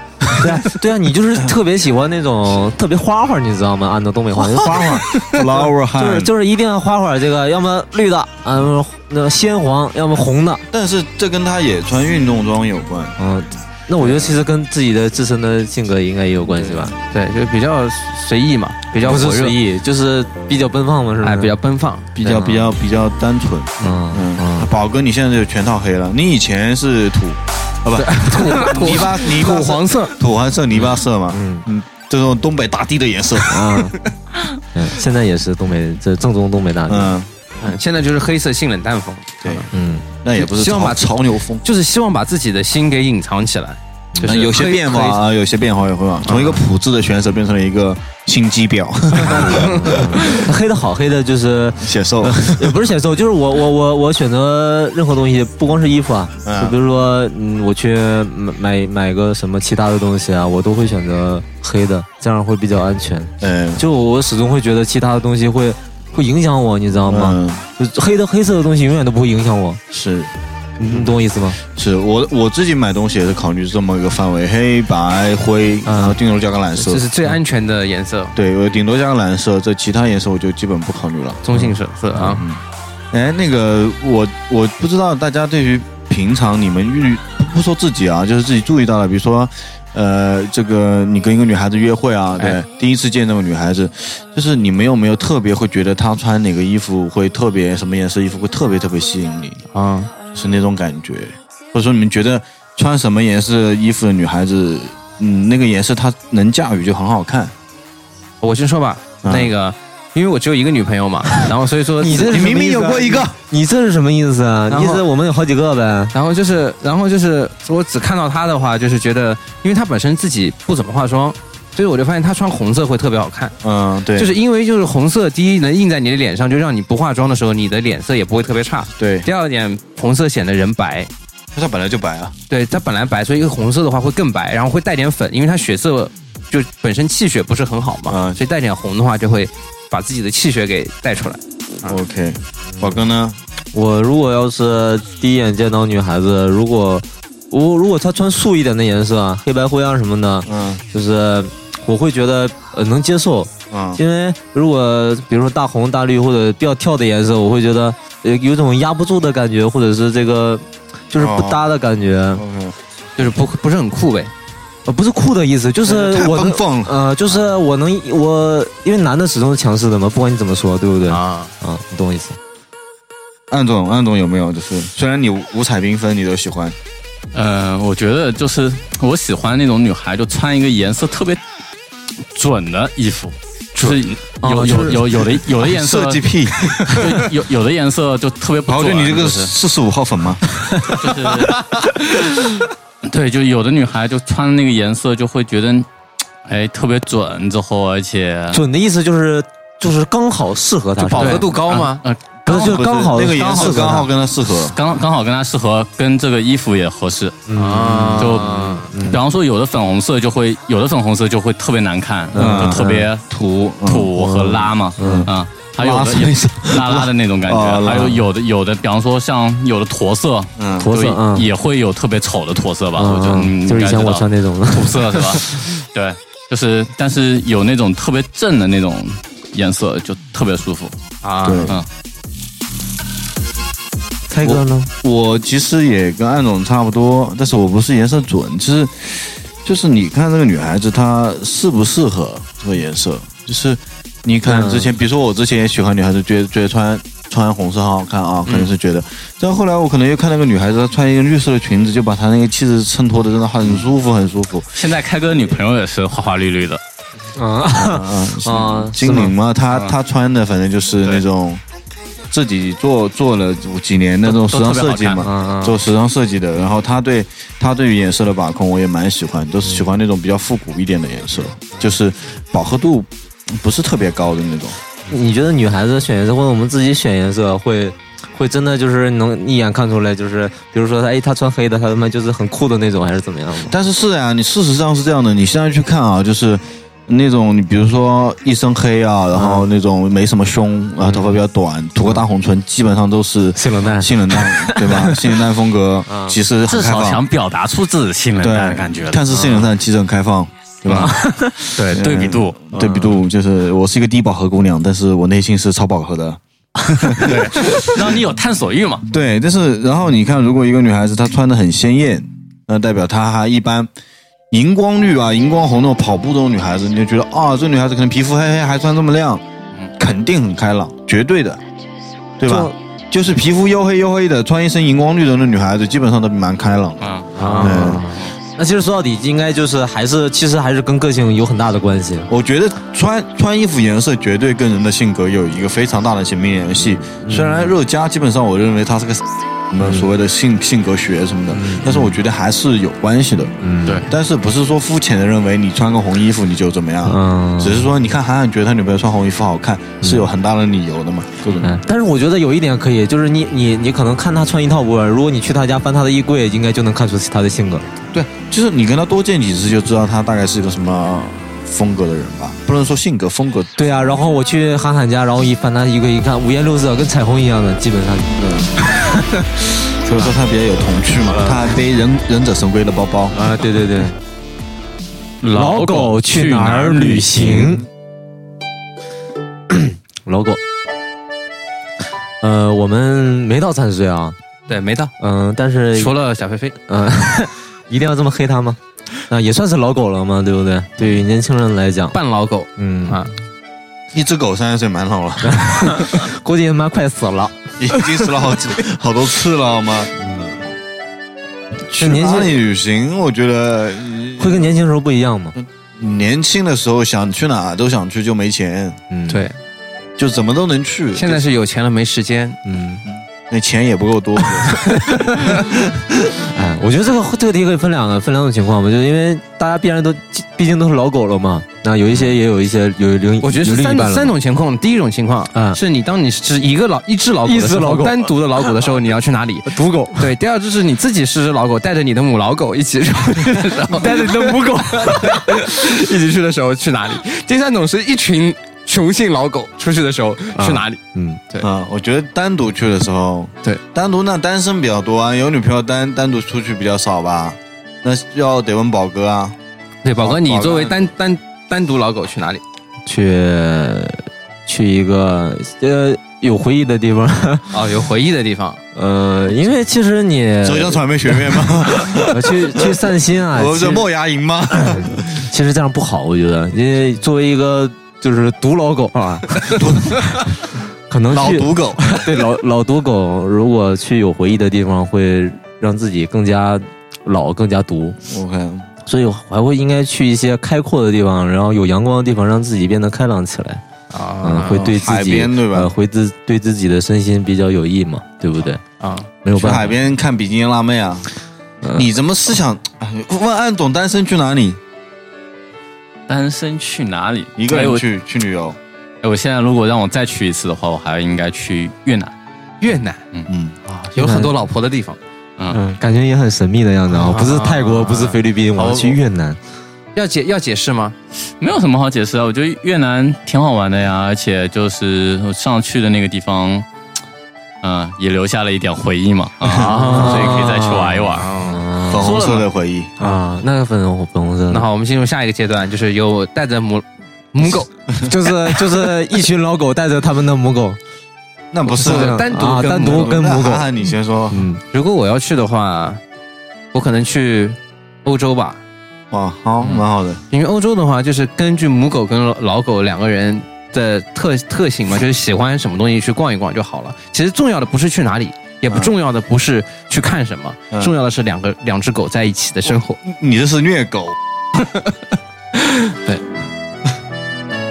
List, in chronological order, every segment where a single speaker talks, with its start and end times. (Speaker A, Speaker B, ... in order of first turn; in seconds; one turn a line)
Speaker A: 0.2-0.5
Speaker B: 0.4-5.0
Speaker A: 4.5-6.3
Speaker B: 5.9-10.6
Speaker A: 10.7-13.2
Speaker B: 13.2-16.9
Speaker A: 14.0-14.3
Speaker A: 16.5-16.9
Speaker C: 17.1-19.6
Speaker B: 19.0-21.5
Speaker C: 21.2-22.1
Speaker A: 22.1-33.7
Speaker B: 22.2-22.8
Speaker B: 23.8-24.7
Speaker C: 27.9-30.1
Speaker B: 31.3-31.6
Speaker B: 33.5-34.0
Speaker B: 34.7-37.2
Speaker A: 36.9-37.3
Speaker C: 37.6-39.7
Speaker B: 39.7-40.1
Speaker A: 40.2-41.6
Speaker C: 40.3-45.2
Speaker B: 44.1-44.5
Speaker A: 44.2-50.4
Speaker C: 46.2-46.6
Speaker B: 49.2-69.8
Speaker C: 49.3-50.0
Speaker A: 51.8-52.8
Speaker A: 56.4-56.8
Speaker A: 63.4-63.8
Speaker A: 67.1-67.6
Speaker A: 69.9-70.3
Speaker B: 70.8-71.6
Speaker A: 71.7-77.0
Speaker B: 75.8-76.2
Speaker C: 76.7-78.3
Speaker A: 78.3-81.6
Speaker C: 81.4-82.4
Speaker A: 82.2-99.6
Speaker C: 92.4-92.6
Speaker C: 99.7-100.1
Speaker A: 100.3-107.5
Speaker C: 108.4-112.7
Speaker A: 109.2-109.5
Speaker B: 112.0-116.1
Speaker A: 112.1-113.3
Speaker C: 114.7-115.0
Speaker C: 116.1-123.6
Speaker A: 123.6-124.3
Speaker C: 124.2-131.1
Speaker A: 129.0-129.3
Speaker A: 131.5-132.3
Speaker C: 132.5-142.0
Speaker A: 138.1-138.4
Speaker A: 141.8-143.4
Speaker B: 142.8-143.1
Speaker B: 143.7-162.4
Speaker A: 150.5-150.8
Speaker A: 153.7-154.0
Speaker A: 161.2-161.7
Speaker A: 162.3-162.8
Speaker C: 163.2-164.3
Speaker B: 164.8-172.4
Speaker A: 165.8-167.0
Speaker C: 171.1-171.5
Speaker A: 173.5-176.8
Speaker D: 177.3-181.4
Speaker D: 182.3-189.5
Speaker B: 184.4-185.2
Speaker A: 185.6-187.1
Speaker A: 188.7-190.4
Speaker D: 190.9-191.6
Speaker D: 193.0-195.9
Speaker D: 196.4-198.6
Speaker B: 198.5-201.5
Speaker D: 201.0-202.8
Speaker C: 201.1-202.0
Speaker B: 202.4-204.1
Speaker A: 202.5-204.8
Speaker D: 204.6-207.4
Speaker B: 207.5-209.2
Speaker C: 207.5-208.9
Speaker D: 208.2-213.2
Speaker B: 212.3-213.1
Speaker A: 212.3-214.1
Speaker D: 213.8-230.9
Speaker B: 214.1-215.3
Speaker A: 215.0-218.2
Speaker A: 220.6-220.9
Speaker B: 220.8-221.5
Speaker B: 222.9-225.5
Speaker C: 231.2-231.7
Speaker A: 231.4-231.7
Speaker B: 234.3-234.9
Speaker A: 234.4-254.7
Speaker B: 244.4-244.9
Speaker D: 254.7-256.8
Speaker B: 257.3-259.3
Speaker A: 257.7-261.6
Speaker D: 259.7-259.9
Speaker A: 262.3-274.8
Speaker D: 264.2-265.2
Speaker B: 265.2-265.8
Speaker B: 275.1-283.8
Speaker A: 283.7-297.2
Speaker B: 289.3-289.7
Speaker B: 291.0-291.4
Speaker B: 293.6-295.4
Speaker B: 296.1-296.4
Speaker D: 296.7-299.2
Speaker A: 298.4-301.2
Speaker B: 299.3-299.7
Speaker D: 300.9-302.6
Speaker B: 300.9-301.5
Speaker A: 301.9-308.0
Speaker B: 302.7-303.2
Speaker D: 307.0-309.1
Speaker A: 309.1-313.9
Speaker A: 314.5-319.4
Speaker A: 320.0-321.6
Speaker A: 322.4-327.0
Speaker B: 322.4-322.7
Speaker D: 327.0-327.3
Speaker B: 327.4-332.3
Speaker C: 327.4-328.0
Speaker A: 327.6-328.1
Speaker D: 328.1-328.3
Speaker A: 332.3-343.5
Speaker B: 337.1-337.7
Speaker B: 339.8-340.1
Speaker B: 341.5-342.2
Speaker B: 343.6-344.0
Speaker A: 344.1-351.8
Speaker B: 347.0-347.9
Speaker B: 350.0-350.3
Speaker B: 351.6-357.9
Speaker A: 358.1-364.1
Speaker B: 363.8-369.5
Speaker A: 368.4-368.7
Speaker A: 370.0-373.4
Speaker B: 371.3-371.8
Speaker B: 373.3-374.1
Speaker D: 375.4-377.7
Speaker B: 375.5-377.9
Speaker B: 379.7-380.6
Speaker B: 382.4-384.4
Speaker C: 384.7-385.1
Speaker B: 385.2-386.1
Speaker C: 385.9-386.7
Speaker B: 386.9-392.2
Speaker C: 392.1-393.3
Speaker B: 392.8-393.2
Speaker A: 394.1-396.2
Speaker B: 395.4-398.5
Speaker A: 397.8-400.6
Speaker B: 400.2-400.6
Speaker A: 401.9-404.7
Speaker B: 401.9-402.6
Speaker B: 404.4-405.6
Speaker A: 405.6-409.0
Speaker B: 409.1-409.4
Speaker C: 409.3-409.6
Speaker A: 410.2-411.4
Speaker C: 411.1-412.6
Speaker B: 412.6-413.0
Speaker A: 413.1-416.3
Speaker B: 416.5-424.3
Speaker C: 423.4-441.7
Speaker B: 425.5-425.8
Speaker B: 427.4-428.4
Speaker B: 429.7-430.3
Speaker B: 433.8-435.7
Speaker B: 440.6-441.4
Speaker A: 441.6-449.6
Speaker C: 450.0-452.6
Speaker A: 450.2-451.0
Speaker B: 453.0-457.8
Speaker C: 457.7-458.8
Speaker B: 458.9-464.1
Speaker A: 460.6-463.0
Speaker A: 463.5-465.4
Speaker B: 464.7-470.3
Speaker A: 469.7-470.3
Speaker B: 471.1-478.2
Speaker A: 471.3-472.3
Speaker A: 478.3-478.9
Speaker B: 479.1-483.8
Speaker C: 484.1-484.9
Speaker B: 484.4-488.8
Speaker A: 484.7-485.9
Speaker C: 489.0-489.3
Speaker B: 489.4-490.0
Speaker A: 489.5-491.3
Speaker B: 491.8-492.1
Speaker A: 491.9-494.8
Speaker D: 496.3-498.0
Speaker A: 497.6-498.8
Speaker D: 499.2-502.3
Speaker C: 502.8-503.2
Speaker A: 503.5-503.7
Speaker C: 503.9-505.2
Speaker B: 504.2-504.5
Speaker B: 505.7-509.6
Speaker C: 507.1-509.1
Speaker C: 510.1-511.1
Speaker D: 511.6-516.9
Speaker D: 517.8-521.5
Speaker A: 519.7-519.9
Speaker C: 519.7-520.7
Speaker B: 520.0-522.5
Speaker C: 521.4-521.8
Speaker A: 522.1-523.1
Speaker D: 522.2-522.6
Speaker B: 523.2-524.9
Speaker C: 524.7-527.9
Speaker B: 528.2-531.0
Speaker A: 531.7-534.6
Speaker B: 531.9-534.8
Speaker C: 531.9-533.4
Speaker C: 534.9-536.2
Speaker C: 536.9-538.8
Speaker A: 539.3-540.4
Speaker C: 539.8-553.2
Speaker A: 553.2-554.4
Speaker C: 555.9-556.4